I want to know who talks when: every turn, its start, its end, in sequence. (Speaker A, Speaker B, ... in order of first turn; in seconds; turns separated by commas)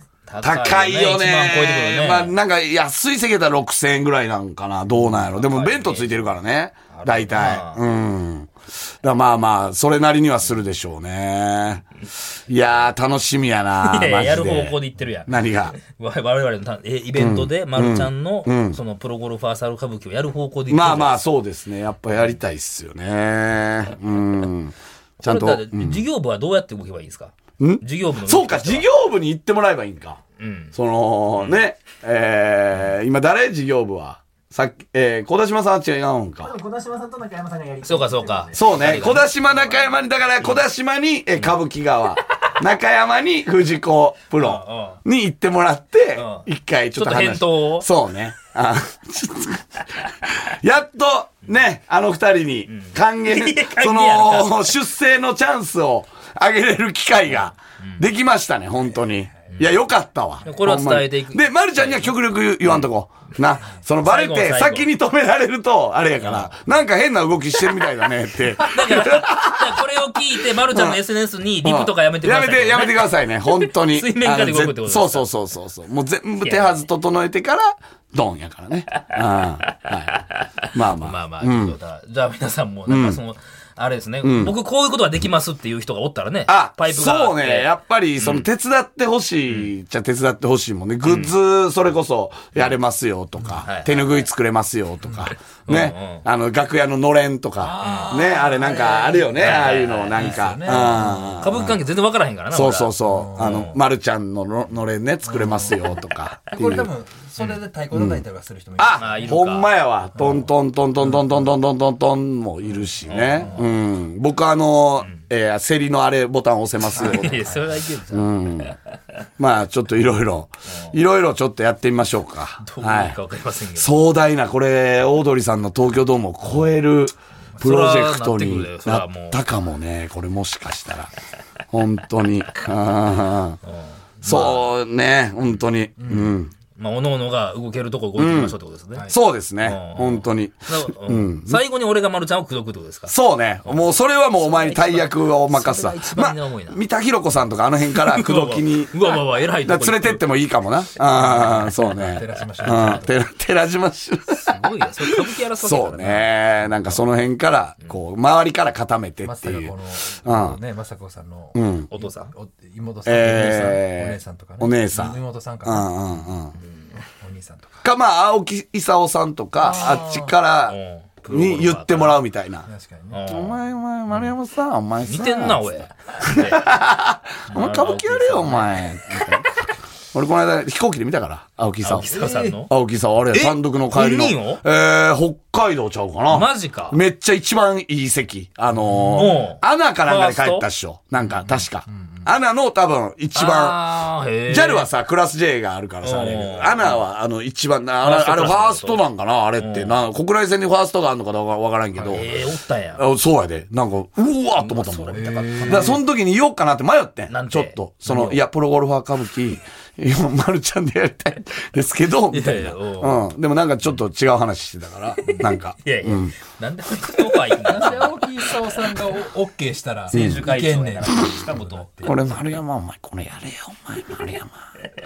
Speaker A: 0.3-2.3, Speaker B: 0.4-11.8, Speaker A: 5.0-6.3, Speaker A: 6.9-7.8, Speaker B: 12.5-15.8, Speaker A: 13.8-21.2, Speaker B: 17.1-18.8, Speaker B: 20.7-26.0, Speaker A: 25.2-28.9, Speaker B: 27.6-30.2, Speaker A: 30.4-30.7, Speaker B: 30.7-36.5, Speaker A: 31.4-31.6, Speaker C: 36.4-40.0, Speaker A: 37.8-39.3, Speaker B: 38.5-69.8, Speaker A: 44.4-45.0, Speaker A: 46.1-47.9, Speaker A: 52.7-54.7, Speaker A: 57.8-58.0, Speaker A: 60.4-62.9, Speaker A: 64.0-64.9, Speaker A: 66.2-66.5, Speaker A: 68.6-75.2, Speaker B: 70.3-71.0, Speaker B: 71.6-80.2, Speaker A: 76.4-76.8, Speaker A: 80.4-88.5, Speaker B: 80.7-81.8, Speaker B: 82.9-83.2, Speaker B: 84.2-84.5, Speaker B: 86.5-101.8, Speaker A: 91.0-91.3, Speaker A: 93.6-94.2, Speaker A: 95.7-96.2, Speaker D: 97.6-101.5, Speaker A: 97.8-98.1, Speaker A: 99.3-100.4, Speaker A: 101.4-103.7, Speaker B: 102.5-106.9, Speaker D: 103.1-103.6, Speaker D: 105.2-105.7, Speaker D: 106.5-109.4, Speaker B: 107.9-108.2, Speaker B: 108.8-117.6, Speaker A: 108.9-109.7, Speaker A: 113.0-113.7, Speaker A: 116.9-118.8, Speaker D: 117.0-117.6, Speaker B: 118.1-118.8, Speaker B: 119.4-123.2, Speaker A: 122.6-123.9, Speaker B: 123.7-131.1, Speaker A: 127.6-129.4, Speaker B: 131.7-133.6, Speaker A: 133.7-134.7, Speaker B: 134.2-136.5, Speaker D: 136.0-136.3, Speaker A: 136.7-139.1, Speaker B: 138.2-138.6, Speaker B: 139.1-141.6, Speaker A: 139.6-143.1, Speaker B: 143.1-160.6, Speaker A: 143.7-146.8, Speaker A: 147.9-150.2, Speaker D: 151.1-153.1, Speaker A: 152.2-153.1, Speaker A: 154.3-157.0, Speaker D: 159.2-165.9, Speaker B: 161.5-161.9, Speaker A: 161.9-162.3, Speaker B: 163.1-166.6, Speaker D: 167.0-167.9, Speaker B: 167.8-170.8, Speaker D: 169.6-170.3, Speaker A: 170.7-172.2, Speaker B: 171.3-172.7, Speaker D: 172.7-173.2, Speaker A: 173.1-173.6, Speaker B: 173.3-175.7, Speaker A: 175.0-176.7, Speaker B: 176.2-179.5, Speaker A: 177.5-179.0, Speaker B: 180.1-193.9, Speaker A: 181.8-182.7, Speaker D: 182.0-182.6, Speaker A: 183.3-184.6, Speaker A: 186.3-187.0, Speaker D: 188.8-189.2, Speaker A: 189.0-190.7, Speaker A: 191.2-191.6, Speaker D: 191.9-192.2, Speaker A: 193.3-194.9, Speaker B: 194.5-202.4, Speaker A: 196.0-197.0, Speaker A: 198.0-199.0, Speaker A: 199.6-200.0, Speaker A: 202.0-203.0, Speaker B: 203.0-216.3, Speaker A: 204.6-206.0, Speaker D: 205.1-206.0, Speaker A: 207.3-208.4, Speaker A: 212.3-213.2, Speaker A: 215.2-218.2, Speaker D: 217.7-222.3, Speaker A: 220.1-222.3, Speaker B: 220.1-220.5, Speaker B: 221.1-221.3, Speaker B: 222.0-224.7